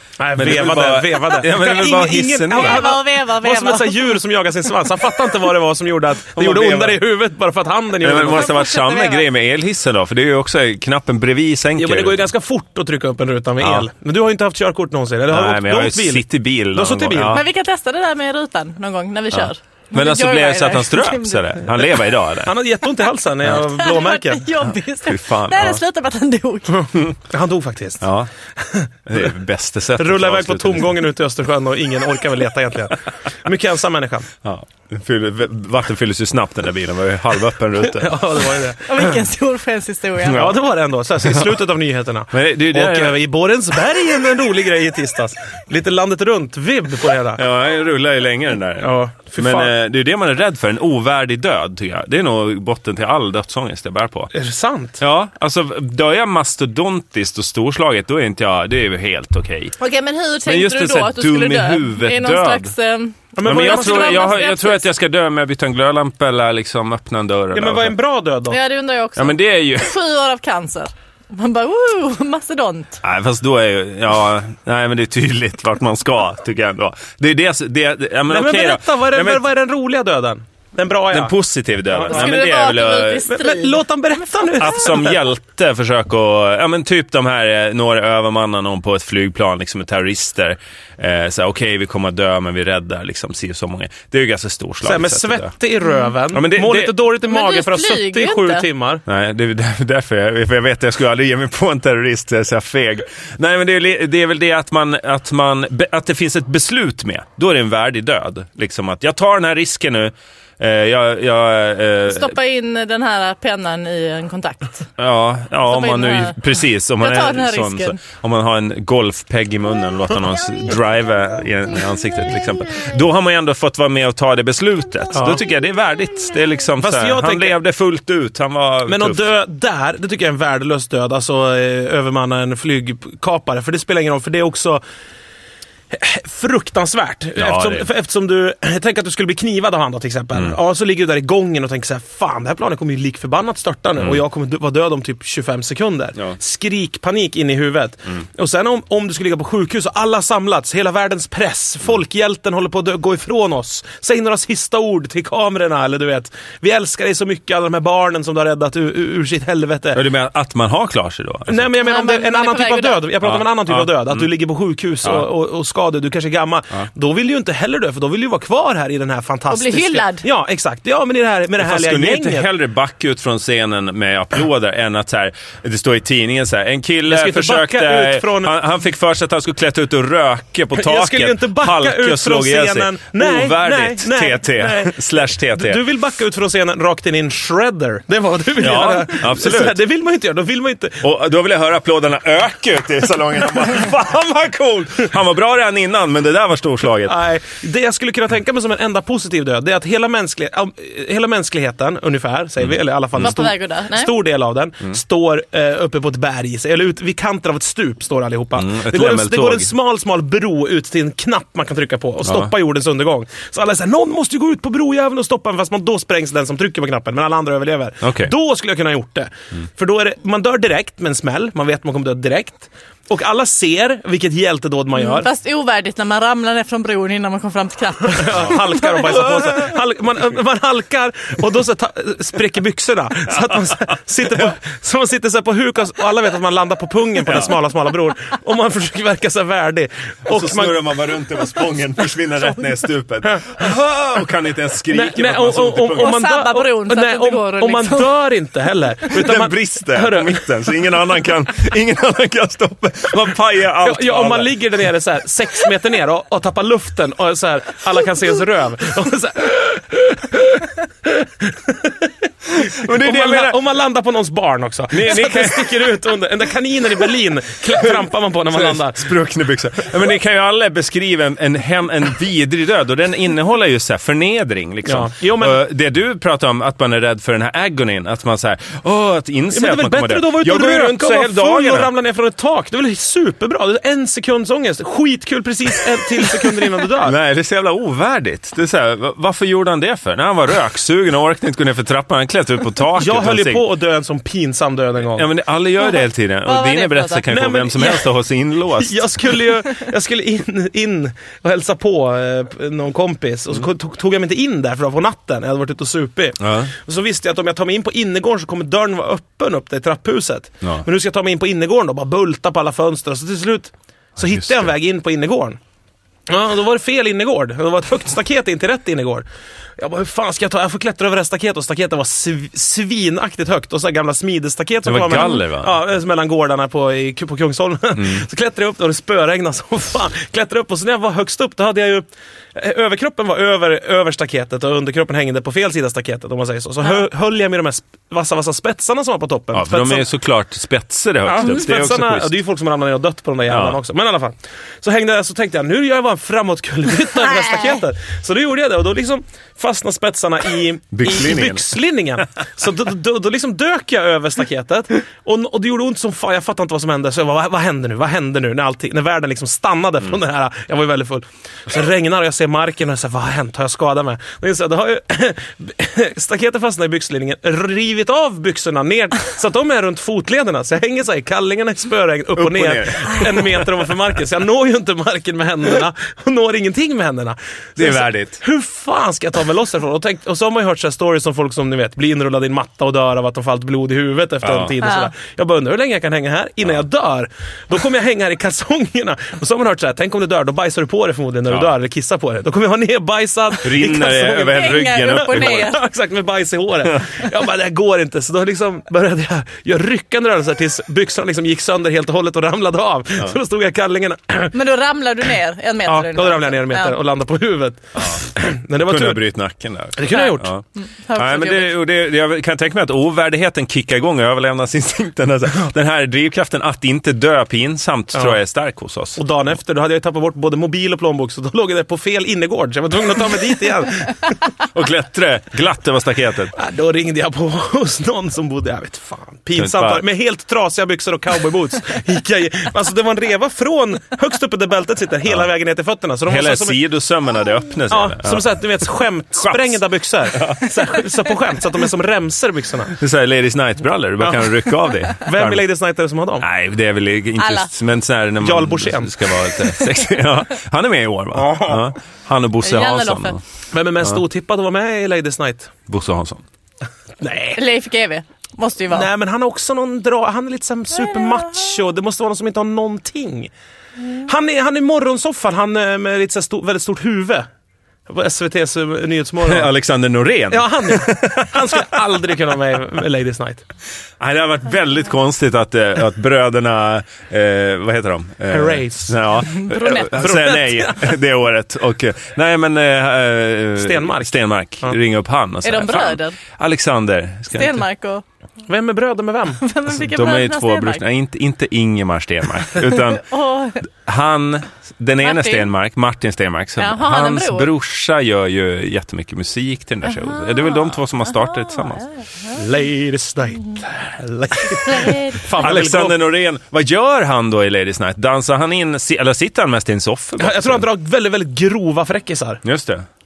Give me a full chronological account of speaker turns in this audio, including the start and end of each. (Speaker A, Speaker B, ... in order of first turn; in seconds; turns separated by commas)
Speaker A: 0.2-8.6, Speaker B: 0.3-2.9, Speaker C: 2.5-4.1, Speaker B: 6.3-7.0, Speaker B: 8.0-12.2, Speaker C: 8.3-9.2, Speaker A: 11.8-17.4, Speaker B: 13.6-13.8, Speaker B: 15.3-17.4, Speaker C: 17.2-22.0, Speaker B: 19.3-22.5, Speaker A: 22.4-24.5, Speaker C: 23.6-26.9, Speaker B: 24.6-25.8, Speaker A: 26.8-29.3, Speaker B: 28.0-28.3, Speaker B: 29.1-30.9, Speaker A: 30.0-34.3, Speaker B: 34.4-38.2, Speaker A: 37.9-39.2, Speaker C: 38.9-40.5, Speaker B: 40.2-40.5, Speaker A: 40.3-47.4, Speaker B: 41.2-41.5, Speaker B: 42.3-43.2, Speaker B: 47.3-54.3, Speaker A: 48.8-49.7, Speaker A: 54.3-55.0, Speaker B: 55.0-59.8, Speaker C: 59.8-64.8, Speaker B: 60.5-62.7, Speaker A: 63.4-64.4, Speaker B: 63.5-67.9, Speaker A: 67.5-68.6, Speaker C: 68.5-73.0, Speaker B: 69.2-69.9, Speaker B: 73.0-79.4, Speaker A: 78.3-81.3, Speaker B: 81.1-83.3, Speaker A: 81.9-82.3, Speaker C: 82.0-84.6, Speaker A: 83.2-85.1, Speaker B: 84.6-95.5, Speaker A: 94.8-99.0, Speaker B: 96.3-96.9, Speaker C: 97.2-98.7, Speaker B: 99.0-112.3, Speaker C: 112.1-114.9, Speaker B: 115.0-129.2, Speaker C: 115.7-116.5, Speaker C: 117.0-118.0, Speaker A: 125.1-125.4, Speaker A: 126.8-127.5, Speaker A: 128.8-134.8, Speaker A: 135.9-160.0, Speaker B: 137.4-137.8, Speaker B: 159.9-161.7, Speaker A: 161.5-172.5, Speaker C: 161.8-163.1, Speaker B: 163.2-164.3, Speaker C: 169.5-170.2, Speaker B: 171.6-185.8, Speaker A: 177.1-178.6, Speaker A: 180.7-191.0, Speaker B: 188.6-189.8, Speaker B: 191.0-197.2, Speaker A: 197.1-225.3, Speaker C: 203.1-204.1, Speaker B: 208.6-209.7, Speaker B: 212.2-212.5, Speaker B: 218.0-218.3, Speaker C: 224.9-229.3, Speaker A: 228.0-240.9, Speaker B: 233.5-233.7, Speaker B: 237.2-237.5, Speaker B: 240.3-246.2, Speaker A: 243.2-243.6, Speaker A: 244.9-250.5, Speaker C: 245.9-248.1, Speaker B: 249.1-254.6, Speaker A: 253.8-269.1, Speaker B: 262.5-263.6, Speaker B: 264.9-265.9, Speaker B: 268.5-281.9, Speaker A: 274.8-275.6, Speaker A: 279.5-287.1, Speaker B: 287.0-293.6, Speaker A: 293.0-295.3, Speaker B: 295.1-299.3, Speaker C: 295.8-297.3, Speaker A: 297.3-298.1, Speaker A: 298.7-315.6, Speaker B: 306.4-306.7, Speaker B: 314.2-314.7, Speaker A: 316.3-319.2, Speaker A: 319.8-340.1, Speaker B: 324.8-325.7, Speaker B: 327.9-328.2, Speaker B: 339.5-342.3, Speaker A: 341.2-404.6, Speaker B: 343.5-343.8, Speaker B: 350.9-351.6, Speaker B: 372.4-373.9, Speaker B: 377.8-378.4, Speaker B: 384.4-384.7, Speaker C: 384.8-385.1, Speaker B: 393.6-395.7, Speaker C: 394.1-395.8, Speaker C: 404.5-407.0, Speaker A: 405.9-409.2, Speaker B: 408.0-410.6, Speaker A: 409.9-410.5, Speaker C: 410.0-411.7, Speaker B: 411.1-419.2, Speaker A: 419.1-424.4, Speaker B: 424.6-426.5, Speaker A: 426.5-436.8, Speaker B: 429.6-430.0, Speaker B: 436.3-438.8, Speaker A: 437.9-442.9, Speaker B: 439.4-439.8, Speaker B: 440.3-440.6, Speaker B: 443.0-445.6, Speaker A: 444.2-444.5, Speaker A: 445.2-446.4, Speaker B: 446.4-453.4, Speaker C: 447.4-447.7, Speaker A: 448.4-449.3, Speaker A: 451.3-451.8, Speaker C: 452.6-453.4, Speaker A: 453.7-455.7, Speaker B: 455.9-456.4, Speaker A: 457.2-457.6, Speaker C: 457.6-459.1, Speaker A: 458.9-463.5, Speaker C: 460.9-461.7, Speaker A: 464.1-467.5, Speaker A: 468.1-469.7, Speaker B: 469.4-471.8, Speaker A: 470.5-473.6, Speaker B: 474.2-487.9, Speaker A: 478.5-481.1, Speaker C: 479.7-480.1, Speaker A: 483.8-485.0, Speaker C: 485.6-486.4, Speaker C: 487.5-488.2, Speaker A: 488.7-489.6, Speaker C: 489.6-491.0, Speaker B: 489.9-493.2, Speaker C: 492.8-493.9, Speaker B: 494.0-502.0, Speaker C: 495.2-495.7, Speaker C: 496.8-497.7, Speaker C: 500.0-502.6, Speaker A: 502.5-506.2, Speaker C: 504.8-505.4, Speaker B: 505.6-510.9, Speaker A: 510.4-512.6, Speaker B: 512.6-513.0